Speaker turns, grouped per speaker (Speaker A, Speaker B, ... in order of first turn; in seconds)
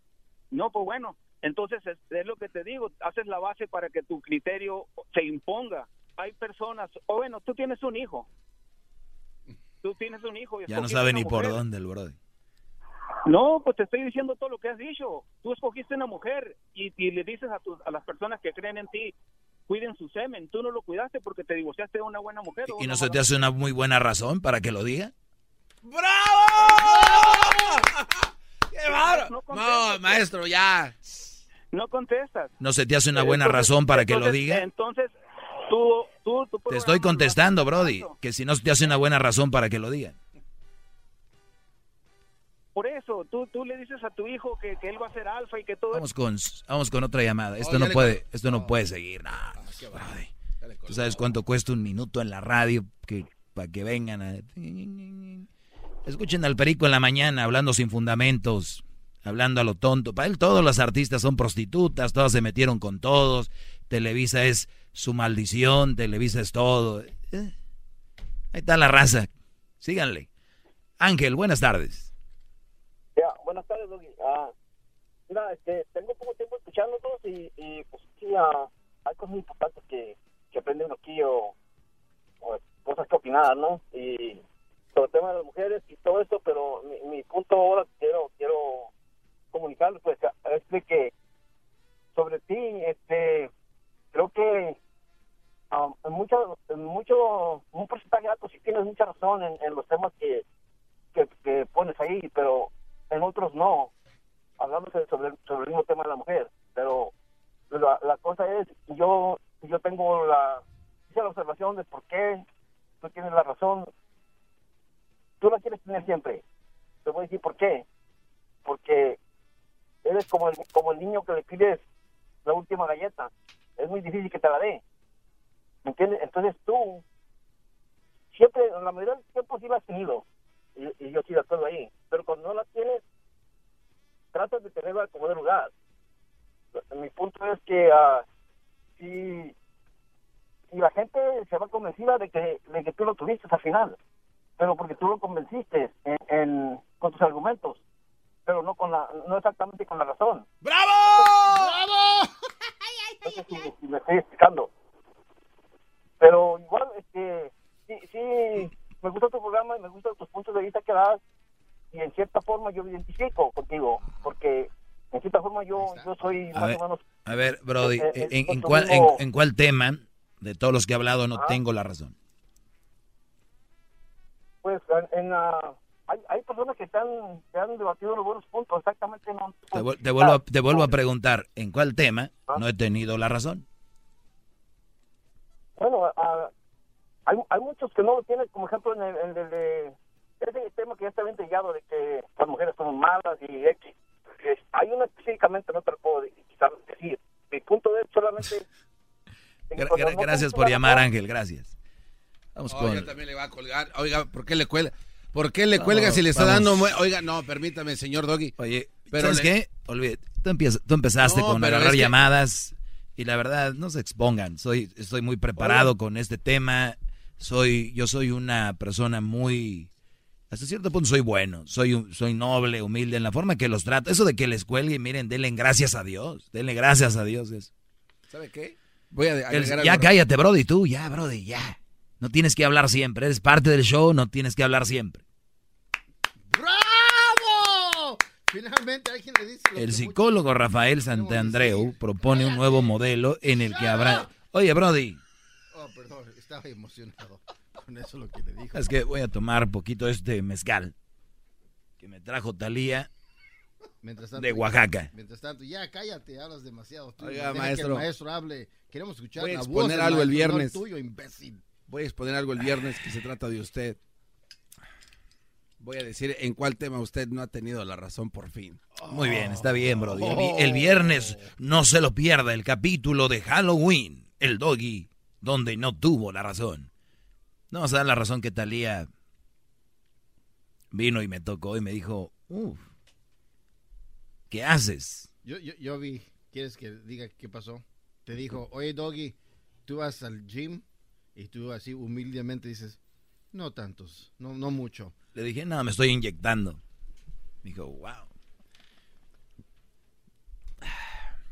Speaker A: 0.5-8.3, 9.8-11.6, 13.3-19.1, 19.7-23.2, 26.6-27.2, 28.9-30.3, 31.7-32.5, 33.1-35.1, 35.7-38.1, 42.8-46.0
Speaker B: 10.7-12.2, 22.7-25.1, 32.6-34.7, 36.7-40.2, 45.9-50.3, 50.9-55.5, 56.0-67.5, 68.5-69.3, 69.8-70.3, 71.0-72.1, 166.6-172.2, 179.7-183.6, 199.8-201.7, 202.6-203.1, 205.8-206.9, 208.6-219.9, 220.5-227.7, 229.5-235.2, 239.8-245.2, 248.7-250.9, 252.0-253.1, 254.3-255.1, 269.1-276.9, 277.7-279.1, 280.9-282.8, 284.5-285.3, 295.4-296.8, 297.6-298.3, 300.8-301.2
Speaker C: 25.8-31.0, 47.6-48.7, 49.6-51.2, 150.6-151.8, 164.0-164.3, 202.7-208.6, 209.1-209.5, 211.2-212.2, 215.6-215.9, 228.3-230.1, 257.2-258.1, 259.4-260.8, 261.9-264.0, 265.8-271.4
Speaker D: 73.2-74.5, 75.3-81.5, 82.4-84.4, 85.0-88.9, 89.5-91.1, 92.2-93.5, 94.1-94.8, 95.7-100.5, 101.2-103.9, 104.6-107.1, 107.7-112.4, 113.0-113.9, 115.4-116.4, 117.0-117.8, 118.7-119.2, 120.0-121.8, 122.5-124.8, 125.8-127.0, 128.3-130.2, 130.8-133.0, 134.3-135.7, 136.8-138.2, 139.0-139.5, 140.7-144.0, 144.6-147.8, 148.5-150.4, 153.2-154.7, 156.2-161.2, 161.9-167.1, 167.8-169.2, 174.6-180.9, 185.8-186.5, 187.3-198.6, 199.7-201.1
Speaker E: 236.5-240.3, 241.0-242.9, 243.6-244.3, 245.7-248.9, 254.0-261.6, 285.4-290.8, 291.4-293.0, 293.5-295.1